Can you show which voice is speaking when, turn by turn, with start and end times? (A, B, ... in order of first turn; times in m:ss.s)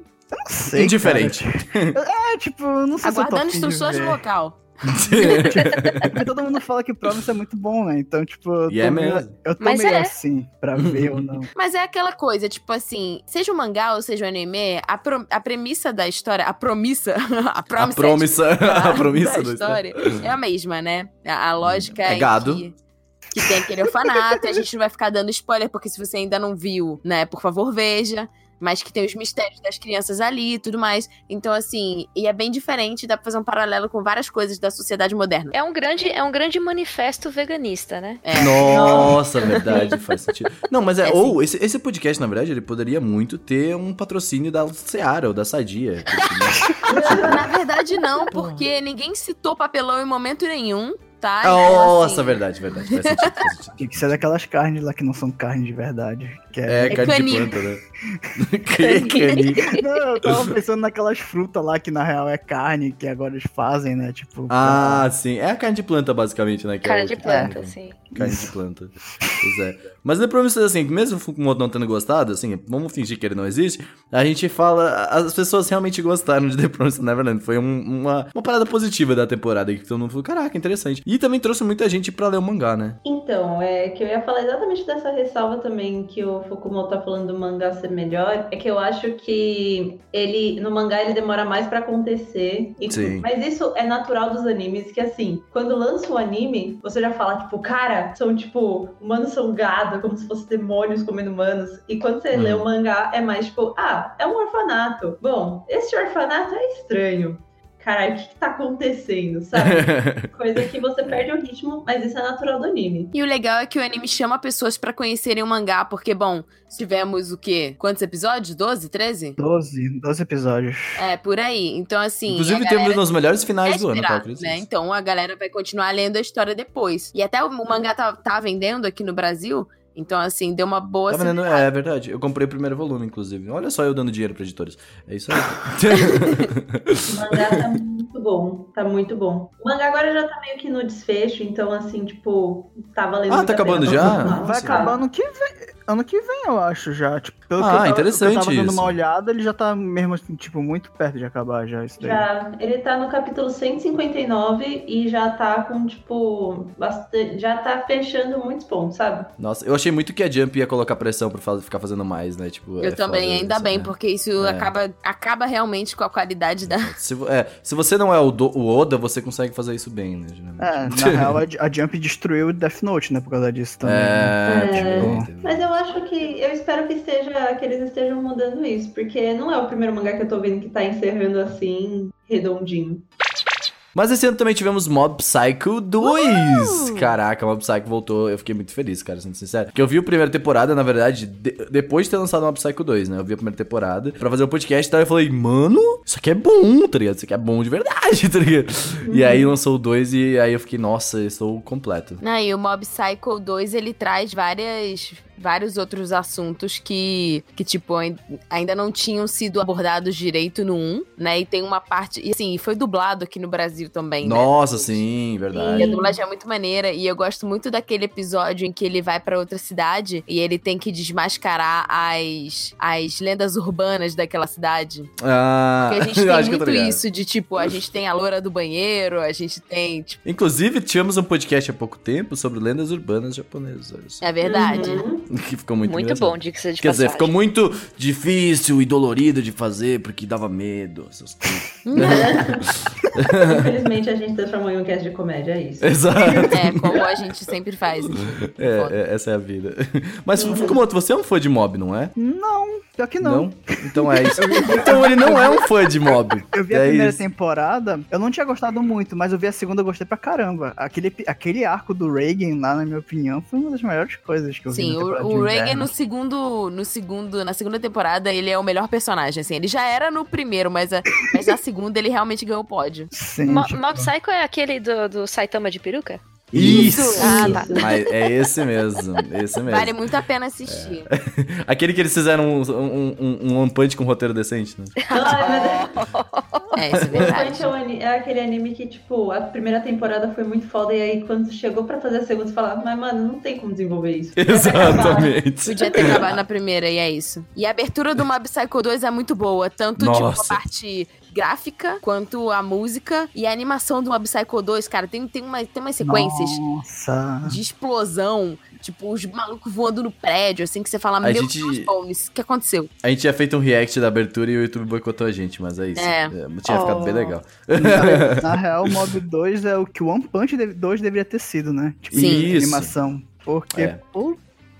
0:00.3-0:04.2 A
0:00.7-0:02.0 B
0:03.0-0:05.4 C
0:04.8-0:06.2 B
0:05.3-0:06.1 D
0:06.1-0:11.5 A
0:08.7-0:09.3 B
0:09.6-0:10.1 D
0:10.7-0:11.2 B
0:11.5-0:22.7 C
0:17.7-0:20.2 B
0:21.6-0:22.6 B
0:23.3-0:35.5 C
0:35.5-0:38.4 D
0:38.2-0:39.2 C
0:38.3-0:47.4 B
0:38.6-0:39.9 E
0:41.0-0:41.4 C
0:46.8-0:47.3 E
0:46.9-0:53.3 C
0:46.9-0:47.3 A
0:51.4-0:54.2 B
0:53.8-0:57.3 A
0:56.6-0:57.8 B
0:56.9-0:57.6 C
0:58.4-1:00.4 B
0:58.8-0:59.8 D
0:59.6-1:05.0 A
1:04.5-1:23.0 B
1:06.8-1:08.1 D
1:08.1-1:08.5 A
1:23.0-1:53.1 E
1:32.9-1:33.3 B
1:42.3-1:42.6 B
1:49.6-1:50.3 B
1:53.1-1:59.4 C
1:59.4-2:01.0 A
2:00.9-2:03.0 C
2:02.3-2:04.6 B
2:03.7-2:11.6 C
2:11.1-2:17.6 B
2:17.1-2:25.0 E
2:23.3-2:24.4 B
2:23.8-2:32.2 A
2:27.6-2:29.0 B
2:32.0-2:39.3 E
2:39.4-2:44.7 B
2:42.8-2:46.9 C
2:46.6-2:51.4 B
2:50.6-2:55.3 A
2:53.8-2:55.7 B
2:54.4-3:03.0 E
3:03.9-3:22.2 B
3:06.0-3:07.1 C
3:19.0-3:19.5 E
3:22.2-3:35.0 C
3:34.2-3:35.9 B
3:35.5-3:36.2 E
3:35.8-3:45.1 C
3:45.2-3:47.0 B
3:45.9-3:50.2 C
3:50.2-3:54.2 B
3:54.2-3:55.0 C
3:54.4-3:55.3 E
3:55.3-4:03.7 B
3:55.8-3:57.3 D
4:01.8-4:02.4 C
4:01.9-4:02.6 E
4:03.3-4:07.0 E
4:05.8-4:07.1 B
4:06.5-4:09.0 C
4:08.2-4:12.1 B
4:10.4-4:10.8 E
4:12.2-4:15.7 A
4:13.2-4:17.2 B
4:16.4-4:25.9 A
4:24.7-4:33.1 C
4:33.1-4:34.1 A
4:33.5-4:38.1 D
4:36.5-4:40.0 B
4:36.5-4:37.9 E
4:36.6-4:36.9 A
4:37.2-4:37.6 C
4:39.6-4:41.1 C
4:40.6-4:44.9 B
4:45.0-4:46.8 D
4:45.1-4:45.9 E
4:46.7-4:47.7 C
4:47.1-4:55.3 E
4:54.4-4:56.4 B
4:55.6-5:06.6 C
5:00.0-5:00.6 B
5:06.0-5:07.6 A
5:07.4-5:12.9 C
5:11.2-5:11.9 B
5:13.0-5:18.9 B
5:16.0-5:17.3 C
5:17.8-5:24.4 A
5:22.1-5:22.9 B
5:22.1-5:22.5 C
5:23.7-5:24.0 B